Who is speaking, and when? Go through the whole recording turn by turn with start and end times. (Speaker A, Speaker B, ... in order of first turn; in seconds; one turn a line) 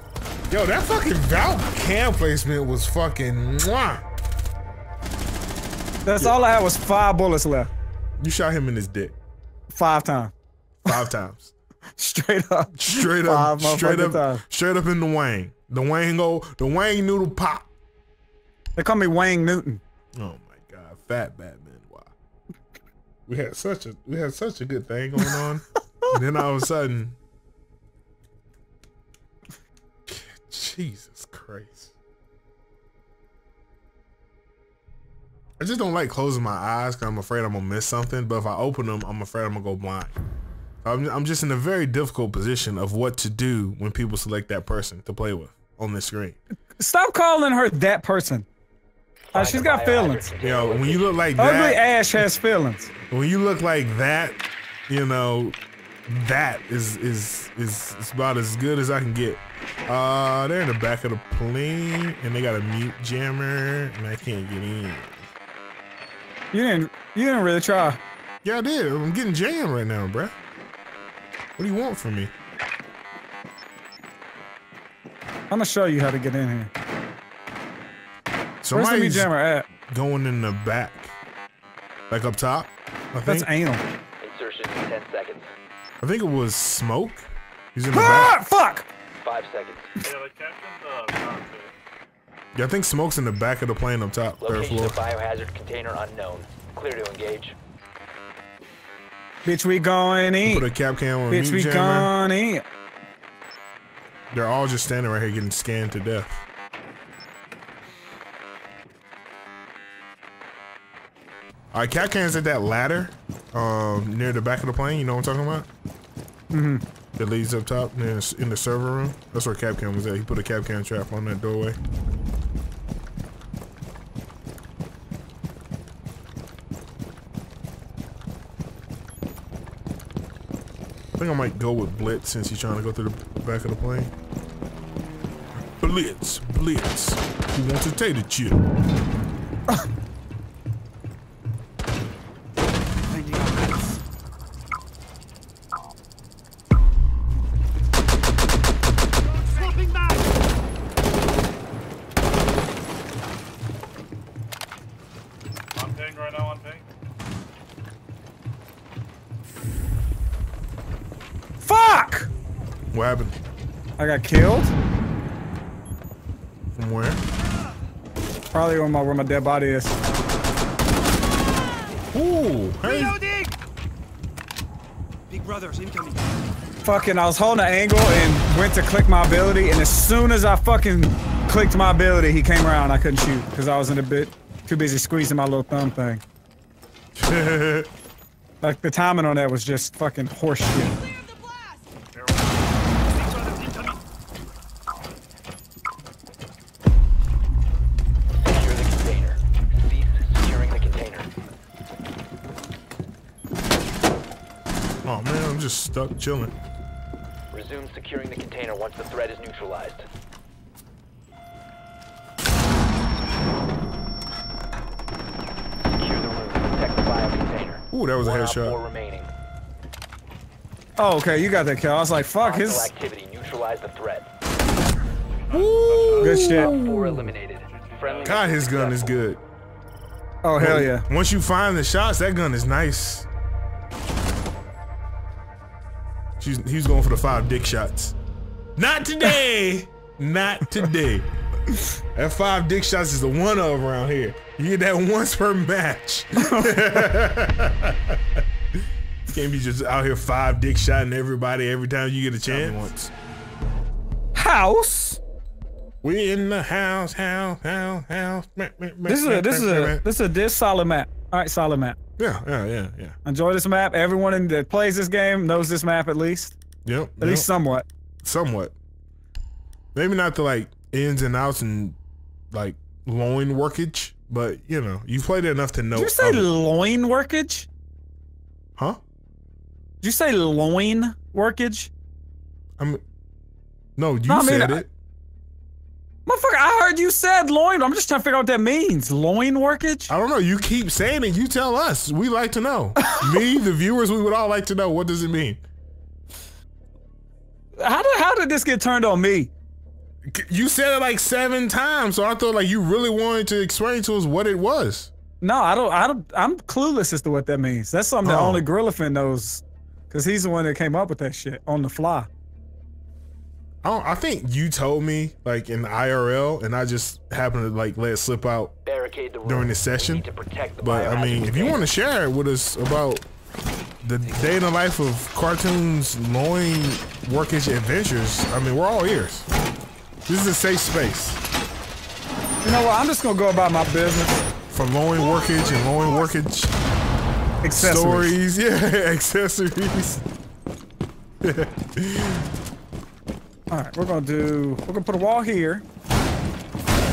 Speaker A: 0.5-4.0
Speaker B: 6.0-7.7
Speaker A: 8.2-9.2
Speaker B: 9.7-10.3
Speaker A: 10.8-11.5
Speaker B: 12.0-14.4
Speaker A: 12.8-17.7
Speaker B: 18.8-19.8
Speaker A: 20.1-22.1
Speaker A: 23.3-27.2
Speaker A: 30.1-31.9
Speaker A: 35.6-40.1
Speaker A: 40.8-46.4
Speaker B: 46.8-48.5
Speaker C: 49.3-51.2
Speaker B: 49.3-50.3
Speaker A: 50.4-51.8
Speaker B: 51.4-52.9
Speaker A: 53.1-65.3
Speaker B: 66.5-68.0
Speaker A: 68.4-70.3
Speaker A: 71.6-72.3
Speaker B: 75.5-76.7
Speaker A: 78.6-79.3
Speaker B: 78.7-79.7
Speaker A: 79.8-81.1
Speaker A: 82.1-83.5
Speaker B: 83.2-83.8
Speaker C: 84.2-85.5
Speaker A: 86.0-88.4
Speaker B: 87.9-88.9
Speaker C: 89.2-89.9
Speaker D: 90.0-91.7
Speaker A: 92.5-95.0
Speaker C: 94.4-97.6
Speaker B: 99.5-100.7
Speaker A: 100.5-102.1
Speaker B: 101.3-102.6
Speaker A: 104.3-106.4
Speaker A: 111.7-115.7
Speaker B: 116.5-116.8
Speaker A: 117.2-121.8
Speaker A: 131.2-134.1
Speaker A: 135.8-138.6
Speaker E: 143.1-144.0
Speaker E: 149.5-150.2
Speaker D: 155.7-156.8
Speaker B: 161.6-162.3
Speaker A: 162.9-163.3
Speaker B: 164.0-164.7
Speaker A: 166.8-167.2
Speaker B: 168.5-170.0
Speaker A: 172.1-173.2
Speaker E: 172.8-173.6
Speaker E: 175.3-176.3
Speaker B: 176.8-186.2
Speaker A: 187.2-187.9
Speaker B: 188.6-191.0
Speaker D: 192.1-194.0
Speaker C: 198.4-201.3
Speaker A: 205.0-206.5
Speaker C: 207.5-210.1
Speaker C: 215.8-219.3
Speaker A: 217.9-218.8
Speaker B: 221.0-222.9
Speaker C: 222.2-224.3
Speaker D: 225.3-226.8
Speaker A: 225.5-227.3
Speaker B: 226.2-226.7
Speaker C: 226.5-229.2
Speaker D: 227.6-228.5
Speaker A: 228.2-229.4
Speaker B: 230.4-231.1
Speaker A: 230.6-233.3
Speaker A: 236.4-238.2
Speaker A: 238.8-241.3
Speaker A: 242.1-248.4
Speaker B: 246.4-247.1
Speaker A: 249.3-253.1
Speaker B: 254.3-255.2
Speaker A: 256.0-260.0
Speaker B: 259.1-262.0
Speaker A: 262.2-263.2
Speaker B: 263.2-266.6
Speaker A: 266.8-267.5
Speaker B: 267.2-267.9
Speaker A: 268.2-268.8
Speaker A: 269.9-272.0
Speaker A: 272.5-276.5
Speaker B: 275.9-277.7
Speaker B: 280.0-281.9
Speaker A: 282.8-283.0
Speaker A: 284.0-284.9
Speaker B: 284.3-284.8
Speaker B: 286.3-290.1
Speaker A: 290.1-295.6
Speaker B: 293.0-293.4
Speaker B: 297.8-299.5
Speaker A: 300.3-305.1
Speaker B: 305.4-312.3
Speaker A: 308.2-308.7
Speaker A: 313.8-318.7
Speaker C: 318.9-321.9
Speaker A: 319.4-320.3
Speaker A: 320.8-323.3
Speaker A: 324.0-329.5
Speaker A: 330.3-331.4
Speaker B: 332.6-334.4
Speaker A: 334.7-336.7
Speaker B: 337.6-338.4
Speaker A: 337.7-340.2
Speaker A: 341.4-342.5
Speaker B: 343.7-345.9